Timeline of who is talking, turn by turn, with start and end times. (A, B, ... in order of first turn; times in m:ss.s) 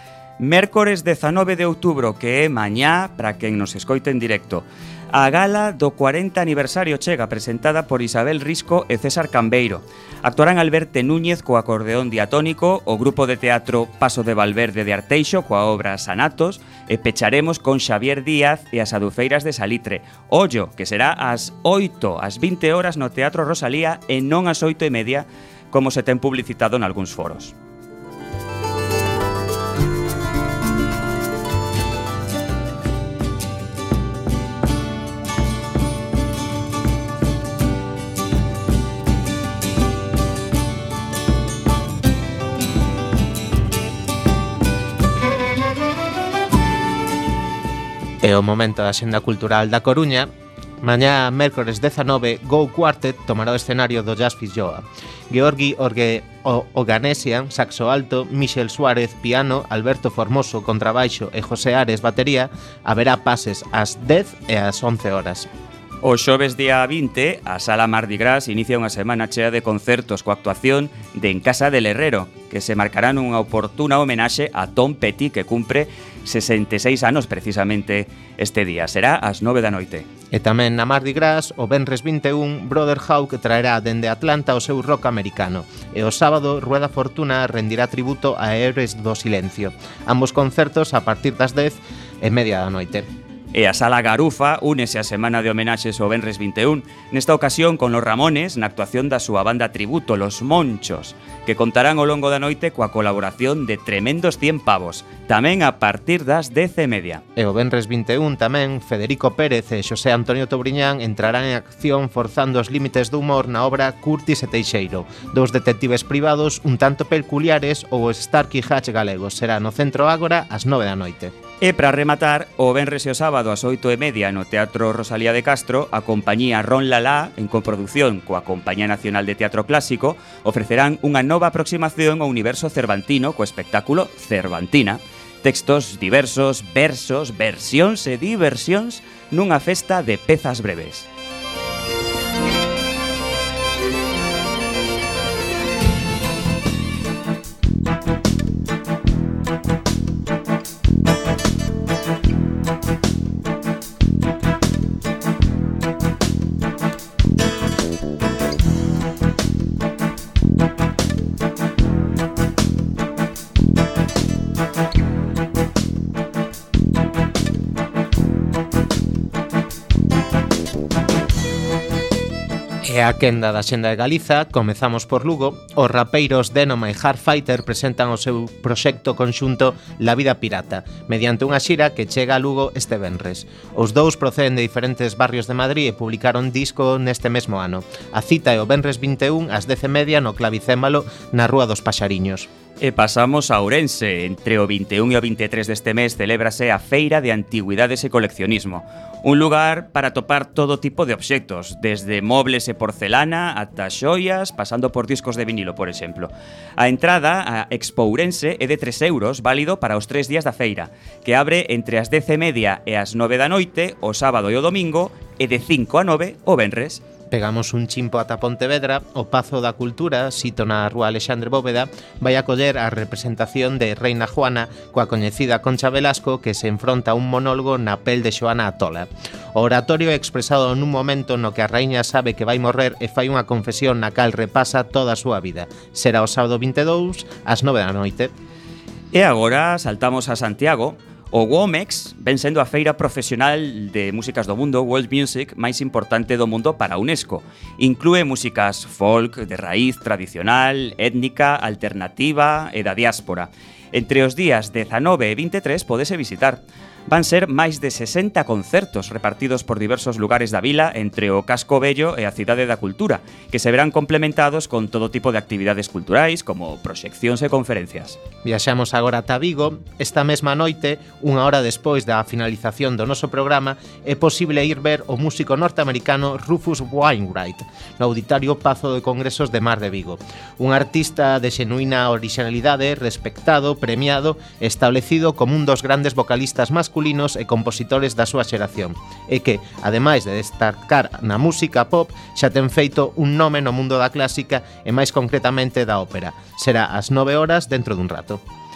0:00.4-0:27.6 A
0:48.2-1:05.5 B
1:06.0-1:20.1 A
1:20.3-1:33.1 B
1:33.5-1:47.2 A
1:47.4-2:01.3 B
2:01.6-2:21.1 A
2:52.8-3:12.5 B
3:12.8-3:37.0 A
3:37.3-3:58.3 B
3:59.1-4:28.2 A
4:28.4-4:58.4 B